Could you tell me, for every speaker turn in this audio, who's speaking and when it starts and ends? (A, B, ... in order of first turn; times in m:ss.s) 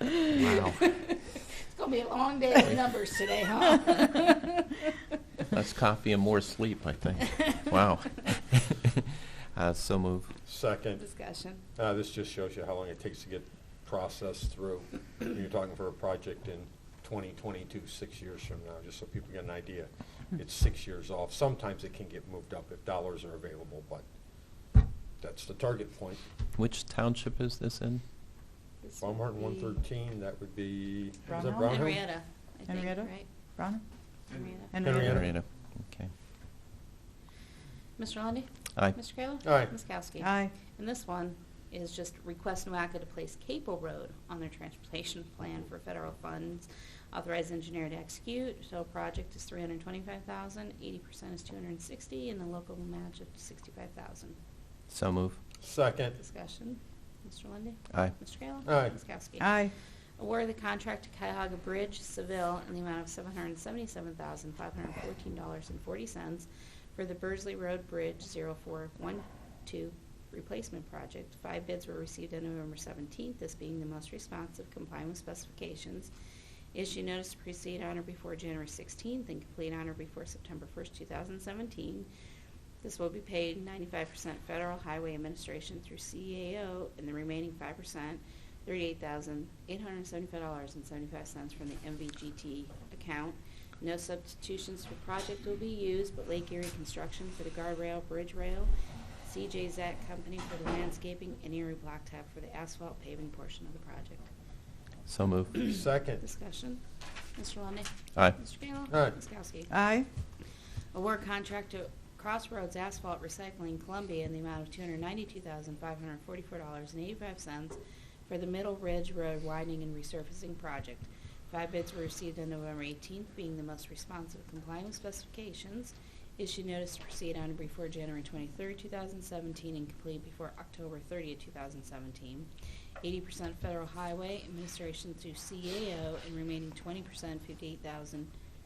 0:00.3-0:00.9 A
0:00.6-0:05.0 B
0:05.5-0:10.3 A
0:07.3-0:07.6 B
0:10.5-0:11.0 C
0:11.0-0:11.6 B
0:11.8-0:24.0 C
0:25.2-0:26.2 C
0:26.6-0:28.0 A
0:28.8-0:29.8 B
0:29.0-0:32.1 C
0:31.3-0:31.9 D
0:31.3-0:33.3 B
0:32.7-0:33.8 D
0:34.3-0:34.8 B
0:34.6-0:35.2 D
0:34.8-0:35.3 C
0:35.0-0:36.1 A
0:38.0-0:54.4 B
0:39.4-0:39.7 C
0:40.2-0:40.6 D
0:54.9-0:55.4 A
0:55.6-0:56.2 C
0:56.2-0:59.5 B
0:58.7-0:59.0 C
0:59.4-0:59.7 D
1:00.2-1:16.1 B
1:16.7-1:22.1 B
1:22.8-1:38.7 B
1:39.2-1:44.3 B
1:45.1-1:45.6 A
1:45.5-1:46.8 B
1:45.7-1:46.2 C
1:47.4-1:49.7 B
1:48.9-1:49.2 C
1:49.7-1:50.1 D
1:50.9-2:12.5 B
2:13.0-2:18.3 B